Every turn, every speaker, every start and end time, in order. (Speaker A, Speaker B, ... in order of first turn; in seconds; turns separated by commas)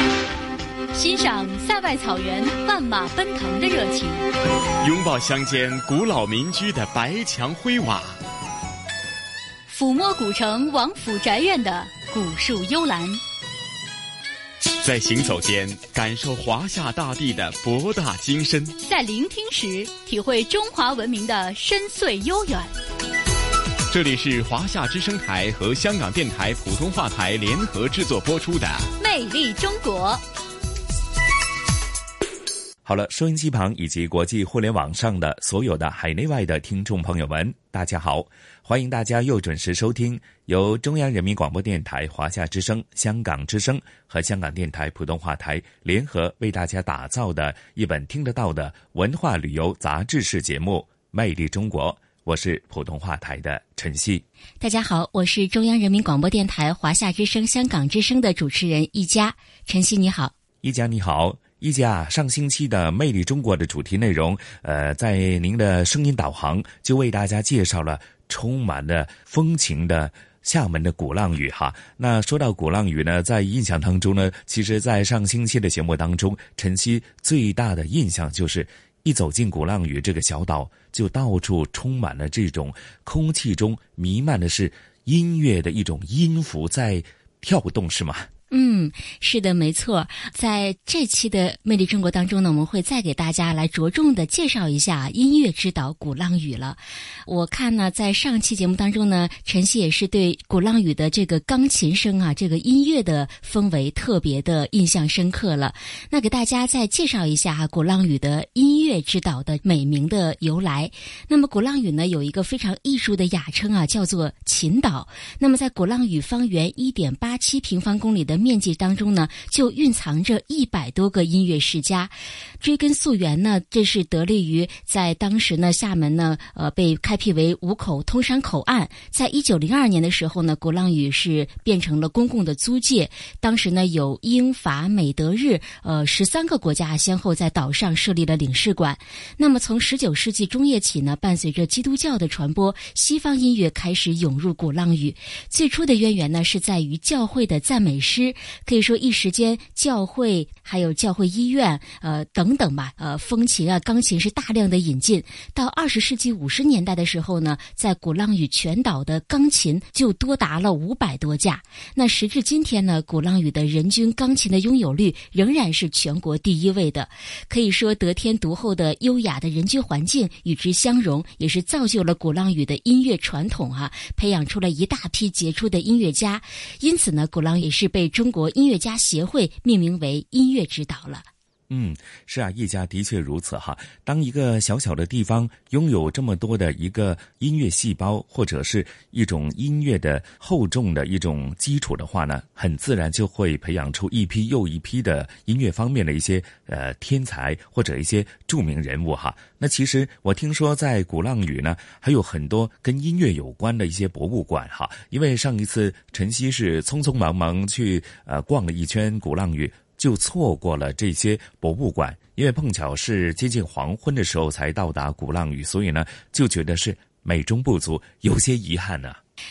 Speaker A: 0.9-4.3, Speaker B: 4.8-8.2, Speaker A: 9.7-13.2, Speaker B: 14.8-18.8, Speaker A: 18.8-22.7, Speaker B: 23.9-28.9, Speaker A: 29.0-30.2, Speaker C: 32.8-54.2, Speaker D: 54.6-60.3, Speaker C: 60.6-88.3, Speaker D: 88.5-181.3, Speaker C: 181.7-219.2